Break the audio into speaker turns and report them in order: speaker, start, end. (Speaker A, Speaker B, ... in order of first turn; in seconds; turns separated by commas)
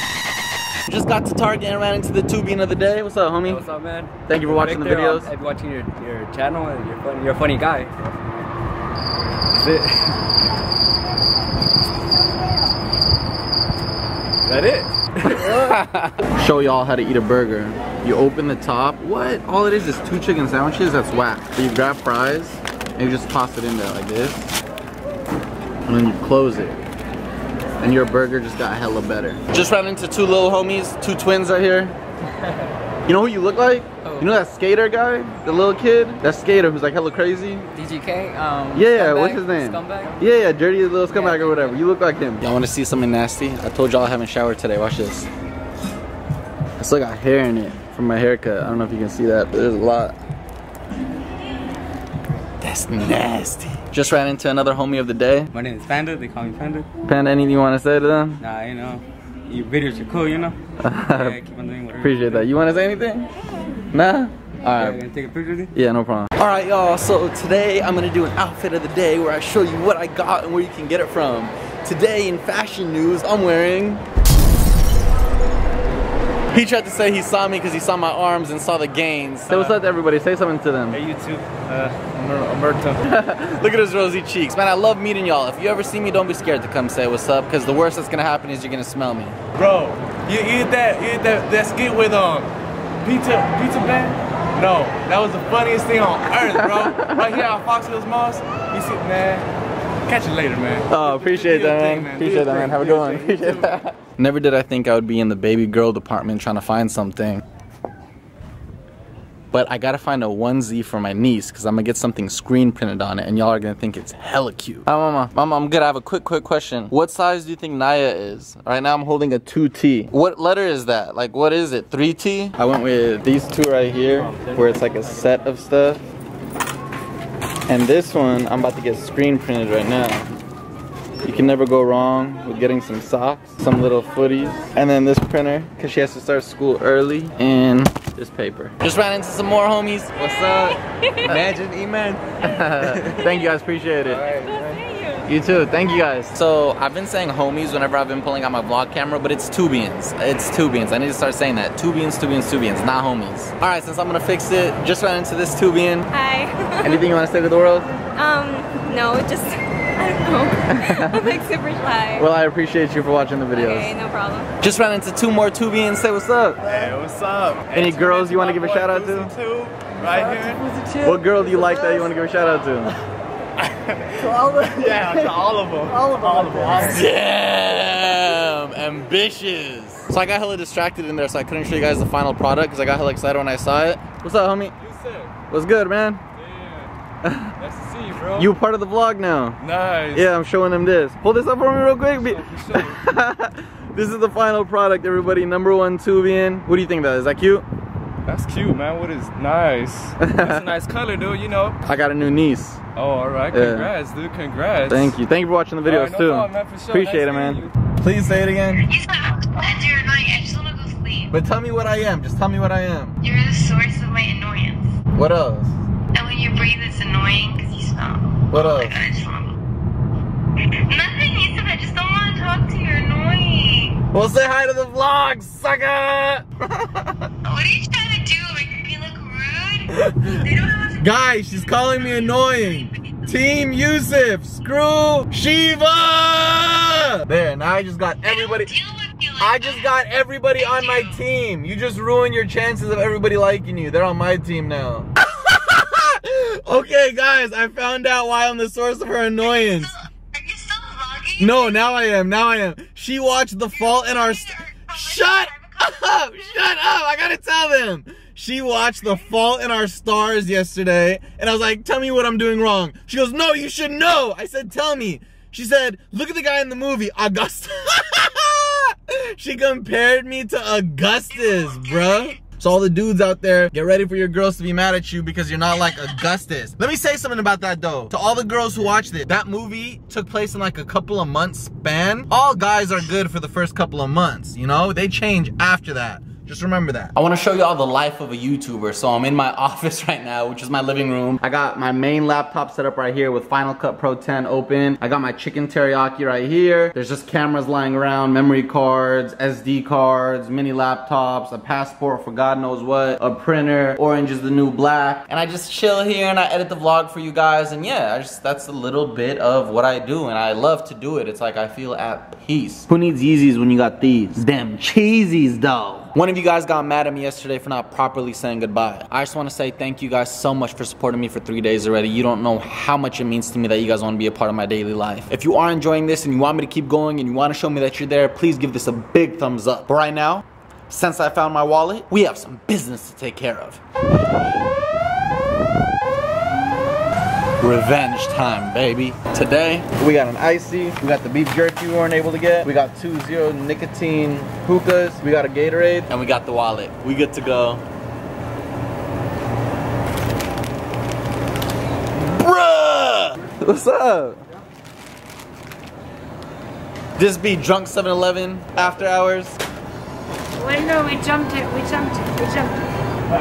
Speaker A: 0.8-3.6, Speaker B: 3.4-7.9, Speaker A: 4.2-5.3, Speaker B: 9.5-10.1, Speaker B: 14.4-14.9, Speaker A: 15.2-24.5, Speaker A: 25.9-26.8, Speaker A: 27.8-31.9, Speaker A: 33.0-37.7, Speaker B: 34.0-34.3, Speaker B: 37.7-40.2, Speaker A: 38.7-45.3, Speaker B: 41.1-41.8, Speaker A: 46.8-50.2, Speaker A: 52.6-55.5, Speaker B: 55.5-56.9, Speaker A: 57.0-58.4, Speaker B: 58.4-62.4, Speaker A: 60.8-61.4, Speaker A: 62.0-63.3, Speaker A: 63.9-65.0, Speaker B: 64.7-65.7, Speaker A: 65.7-74.0, Speaker A: 76.5-81.0, Speaker C: 80.9-82.9, Speaker A: 82.2-89.4, Speaker C: 89.5-92.5, Speaker C: 93.0-99.5, Speaker A: 96.4-97.3, Speaker C: 100.0-103.8, Speaker A: 100.9-107.4, Speaker A: 109.5-126.0, Speaker A: 127.7-130.3, Speaker A: 131.2-141.5, Speaker C: 141.7-142.0, Speaker A: 142.4-144.3, Speaker D: 144.2-145.3, Speaker A: 145.2-156.1, Speaker D: 156.1-157.1, Speaker A: 156.8-157.9, Speaker D: 158.2-162.3, Speaker A: 160.7-161.2, Speaker A: 162.2-163.9, Speaker D: 163.5-164.5, Speaker A: 164.6-166.6, Speaker C: 166.7-170.7, Speaker A: 167.7-169.3, Speaker B: 170.0-171.7, Speaker A: 171.0-172.9, Speaker C: 173.6-176.8, Speaker B: 174.2-177.1, Speaker A: 176.8-184.7, Speaker C: 184.8-185.3, Speaker A: 185.5-186.2, Speaker C: 186.3-186.9, Speaker A: 187.2-187.5, Speaker C: 187.6-188.5, Speaker A: 188.3-189.6, Speaker C: 189.6-190.2, Speaker A: 190.1-197.7, Speaker C: 192.2-193.0, Speaker C: 198.2-201.8, Speaker A: 200.2-200.7, Speaker A: 201.8-202.8, Speaker C: 202.9-205.1, Speaker A: 203.5-203.9, Speaker A: 204.9-208.9, Speaker C: 205.8-207.7, Speaker E: 208.9-211.3, Speaker A: 211.3-213.1, Speaker E: 213.2-214.9, Speaker A: 215.1-215.7, Speaker E: 216.1-219.6, Speaker A: 218.5-219.0, Speaker E: 220.8-224.0, Speaker A: 224.1-227.3, Speaker E: 227.4-231.0, Speaker A: 229.9-230.4, Speaker A: 231.0-238.8, Speaker E: 238.2-239.9, Speaker A: 239.4-250.0, Speaker E: 240.6-241.2, Speaker E: 249.8-251.7, Speaker A: 251.4-333.8, Speaker E: 253.7-255.8, Speaker A: 337.6-347.8, Speaker A: 352.2-354.4, Speaker A: 357.2-359.6, Speaker E: 360.6-362.8